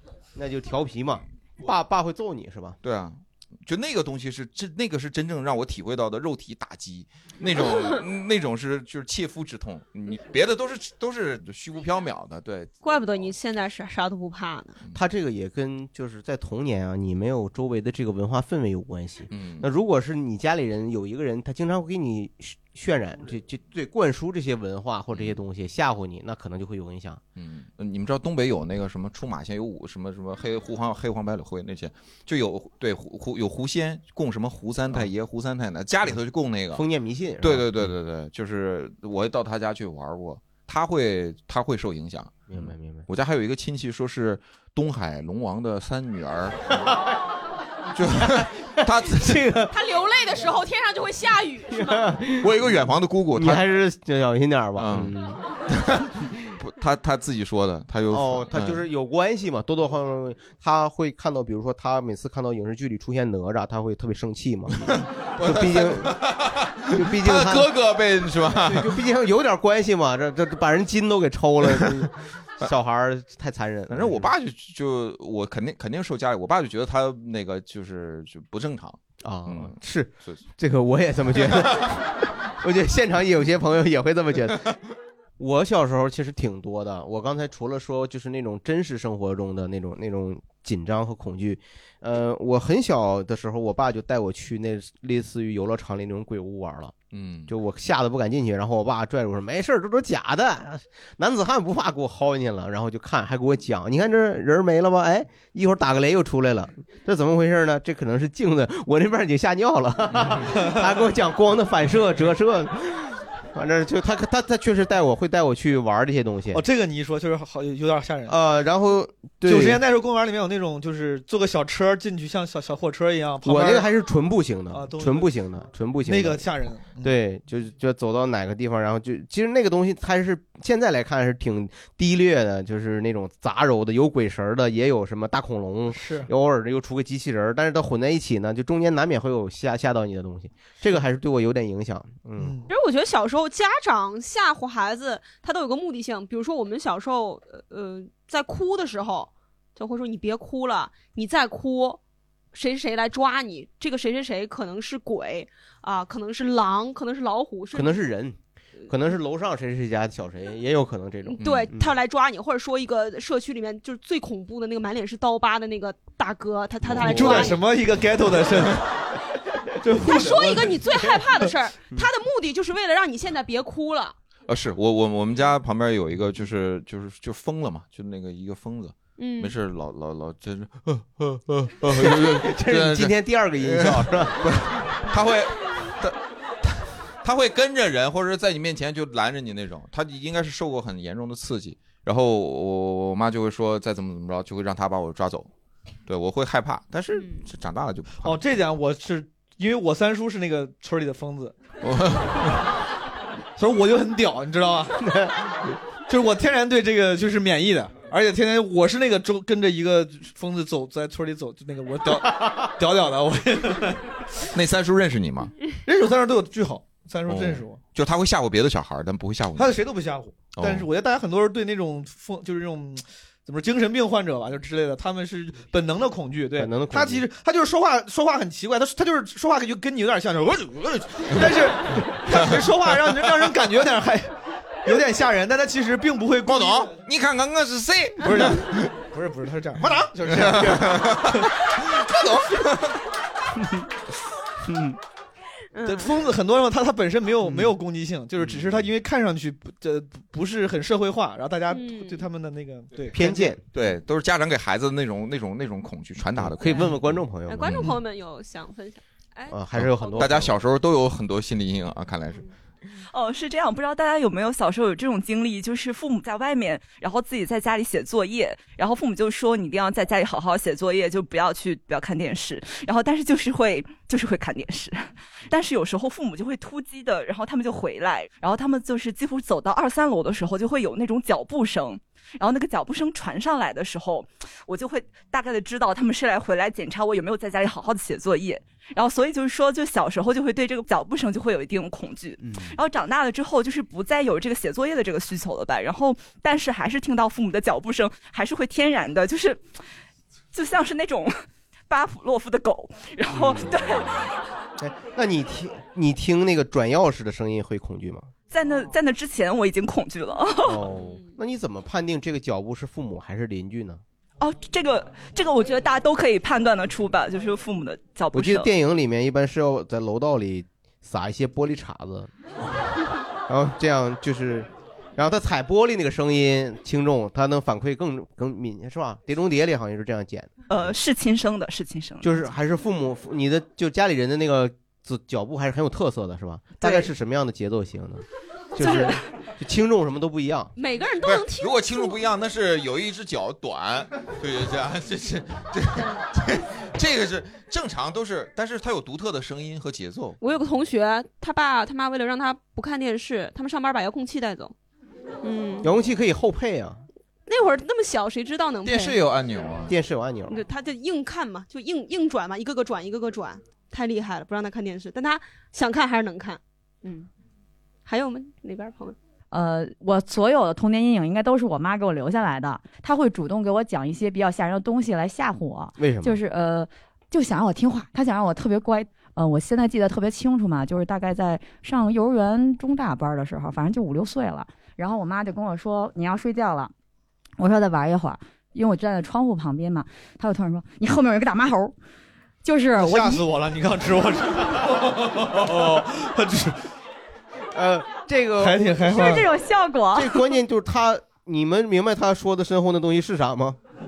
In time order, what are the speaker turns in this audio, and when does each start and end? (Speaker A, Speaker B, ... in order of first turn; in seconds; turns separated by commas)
Speaker A: 0.3-2.8, Speaker B: 2.8-12.7, Speaker C: 12.8-14.8, Speaker A: 14.9-27.2, Speaker B: 19.3-19.7, Speaker B: 25.1-25.4, Speaker B: 27.4-36.8, Speaker A: 36.8-37.9, Speaker B: 37.4-46.6, Speaker A: 42.5-43.1, Speaker B: 48.0-49.6, Speaker A: 48.2-49.7, Speaker C: 49.7-52.2, Speaker A: 51.7-52.7, Speaker B: 52.4-53.6, Speaker A: 53.4-55.4, Speaker B: 54.8-55.1, Speaker B: 55.7-58.8, Speaker A: 58.1-66.2, Speaker B: 64.8-69.0, Speaker A: 66.9-67.8, Speaker A: 68.5-74.3, Speaker B: 73.9-80.5, Speaker A: 79.2-84.7, Speaker A: 85.4-97.0, Speaker B: 97.1-97.5, Speaker A: 97.5-116.6, Speaker D: 116.5-118.4, Speaker A: 118.3-119.8, Speaker D: 119.5-123.9, Speaker A: 123.5-126.5, Speaker D: 124.7-125.3, Speaker D: 126.1-127.1, Speaker A: 127.0-142.6, Speaker D: 135.9-136.3, Speaker D: 142.4-142.7, Speaker C: 142.7-152.0, Speaker C: 152.5-158.1, Speaker A: 157.7-158.4, Speaker A: 158.9-161.9, Speaker C: 161.2-167.6, Speaker B: 161.4-161.7, Speaker B: 166.8-167.2, Speaker D: 167.0-168.9, Speaker A: 167.0-167.6, Speaker D: 169.8-170.8, Speaker C: 170.0-174.2, Speaker B: 174.5-195.5, Speaker C: 179.2-179.5, Speaker A: 181.9-184.4, Speaker B: 196.1-198.4, Speaker D: 198.2-201.6, Speaker B: 201.8-202.6, Speaker D: 203.6-205.0, Speaker A: 205.0-205.4, Speaker D: 206.1-214.1, Speaker B: 214.5-215.5, Speaker D: 215.9-217.8, Speaker B: 217.3-219.8, Speaker D: 219.6-234.3, Speaker B: 220.5-220.9, Speaker A: 226.6-227.2, Speaker D: 234.8-236.9, Speaker B: 236.4-238.9, Speaker D: 238.2-240.8, Speaker A: 240.2-241.0, Speaker B: 240.3-241.4, Speaker B: 242.0-242.9, Speaker A: 244.7-245.0, Speaker C: 245.7-246.2, Speaker D: 245.8-253.5, Speaker A: 247.5-247.7, Speaker C: 251.7-252.2, Speaker A: 253.1-253.6, Speaker B: 253.7-256.9, Speaker A: 256.4-257.8, Speaker C: 257.5-260.4, Speaker B: 257.6-257.9, Speaker A: 259.5-260.6, Speaker B: 259.7-262.5, Speaker E: 263.1-299.6, Speaker A: 292.4-292.8, Speaker E: 300.5-301.4, Speaker E: 301.9-304.3, Speaker A: 303.3-304.3, Speaker A: 304.8-308.3, Speaker E: 308.5-310.9, Speaker A: 310.6-314.0, Speaker C: 310.9-311.3, Speaker E: 314.4-318.7, Speaker A: 318.3-322.3, Speaker A: 323.5-330.9, Speaker E: 330.7-332.4, Speaker A: 332.2-338.2, Speaker E: 336.8-337.1, Speaker A: 338.8-340.7, Speaker C: 340.8-342.2, Speaker B: 341.2-350.4, Speaker C: 350.4-354.7, Speaker C: 355.4-355.9, Speaker A: 355.8-357.0, Speaker C: 357.5-359.2, Speaker B: 358.9-359.9, Speaker A: 359.9-360.6, Speaker C: 360.5-367.3, Speaker C: 368.1-369.2, Speaker F: 369.5-386.9, Speaker A: 376.0-376.4, Speaker F: 387.6-391.9, Speaker F: 392.6-393.4, Speaker D: 392.9-396.8, Speaker A: 397.7-399.1, Speaker D: 398.6-399.5, Speaker F: 399.1-400.4, Speaker A: 400.1-403.8